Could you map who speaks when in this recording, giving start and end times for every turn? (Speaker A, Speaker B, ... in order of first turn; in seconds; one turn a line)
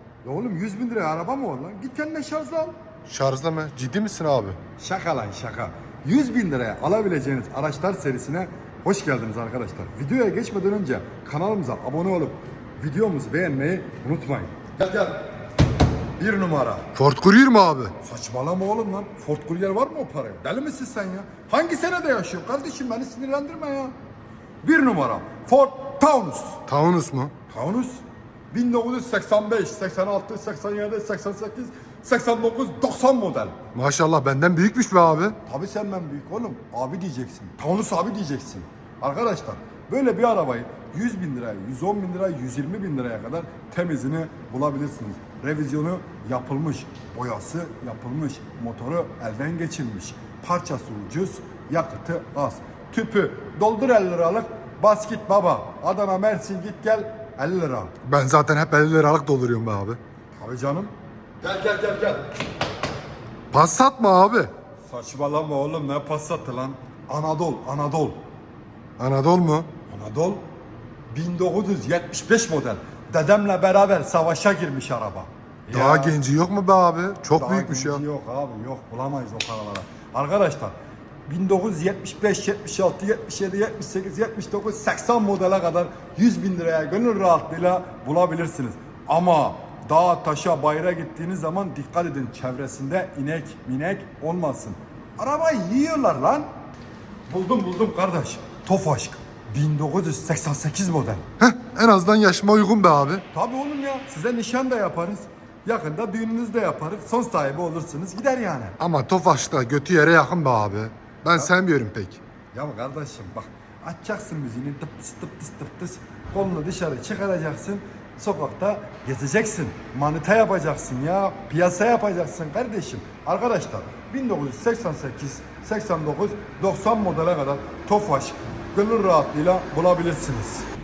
Speaker A: 0.2-2.7
Speaker B: 3.1-4.6
Speaker A: 4.8-15.2
Speaker A: 16.2-16.9
Speaker B: 16.9-17.9
Speaker A: 18.0-23.9
Speaker A: 24.6-26.6
Speaker B: 26.7-27.3
Speaker A: 27.5-33.6
Speaker B: 33.7-35.4
Speaker A: 35.5-57.9
Speaker B: 58.0-60.0
Speaker A: 60.3-62.3
Speaker B: 63.5-64.5
Speaker A: 64.8-68.2
Speaker B: 69.0-69.7
Speaker A: 69.9-70.4
Speaker A: 71.1-76.2
Speaker B: 75.7-78.0
Speaker A: 77.3-80.7
Speaker A: 81.3-96.5
Speaker A: 97.3-101.3
Speaker B: 101.4-103.2
Speaker A: 103.3-108.8
Speaker B: 108.8-112.2
Speaker A: 112.5-130.7